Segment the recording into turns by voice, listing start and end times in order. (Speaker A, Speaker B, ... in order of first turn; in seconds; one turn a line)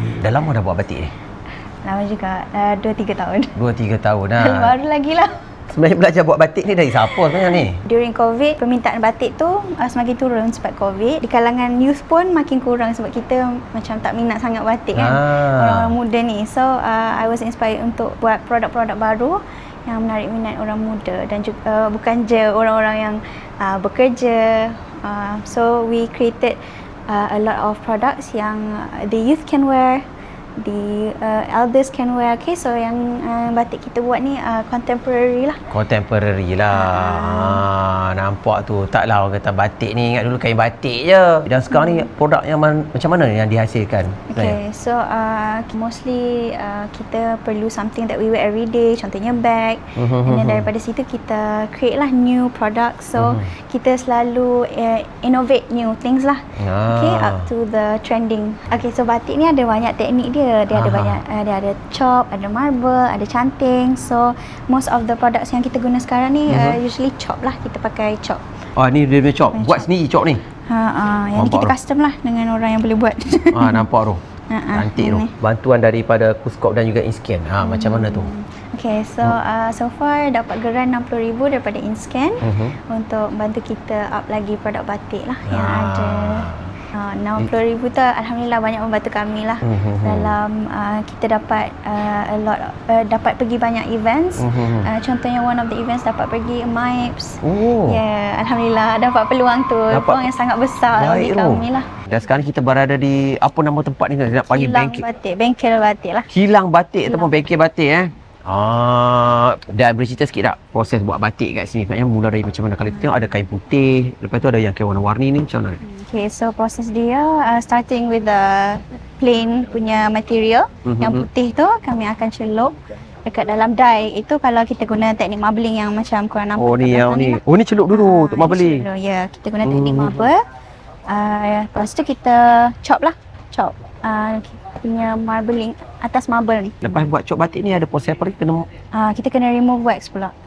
Speaker A: 0.2-1.1
Speaker B: 1.8-3.5
Speaker A: 3.6-4.8
Speaker B: 4.4-5.4
Speaker A: 5.7-7.8
Speaker B: 7.8-30.1
Speaker A: 14.9-15.9
Speaker B: 30.6-35.6
Speaker A: 35.7-44.6
Speaker B: 36.7-37.6
Speaker B: 41.7-42.1
Speaker B: 44.3-68.4
Speaker A: 50.0-50.7
Speaker A: 53.2-53.5
Speaker A: 56.6-57.5
Speaker A: 60.7-61.2
Speaker A: 66.5-66.8
Speaker A: 68.8-70.4
Speaker B: 69.5-69.9
Speaker B: 70.7-73.8
Speaker A: 71.4-71.7
Speaker A: 73.5-74.2
Speaker B: 74.5-75.3
Speaker A: 74.7-78.3
Speaker B: 77.6-101.9
Speaker A: 82.4-82.8
Speaker A: 85.5-86.7
Speaker A: 89.6-90.3
Speaker A: 94.4-94.9
Speaker A: 97.4-98.0
Speaker A: 99.9-100.2
Speaker A: 101.0-105.0
Speaker B: 104.5-106.3
Speaker A: 106.3-115.8
Speaker B: 107.1-107.3
Speaker B: 115.8-122.7
Speaker A: 120.8-121.3
Speaker B: 123.2-127.4
Speaker A: 126.6-128.8
Speaker B: 127.9-130.4
Speaker A: 129.6-130.2
Speaker B: 131.1-136.8
Speaker A: 136.8-138.7
Speaker B: 138.9-140.3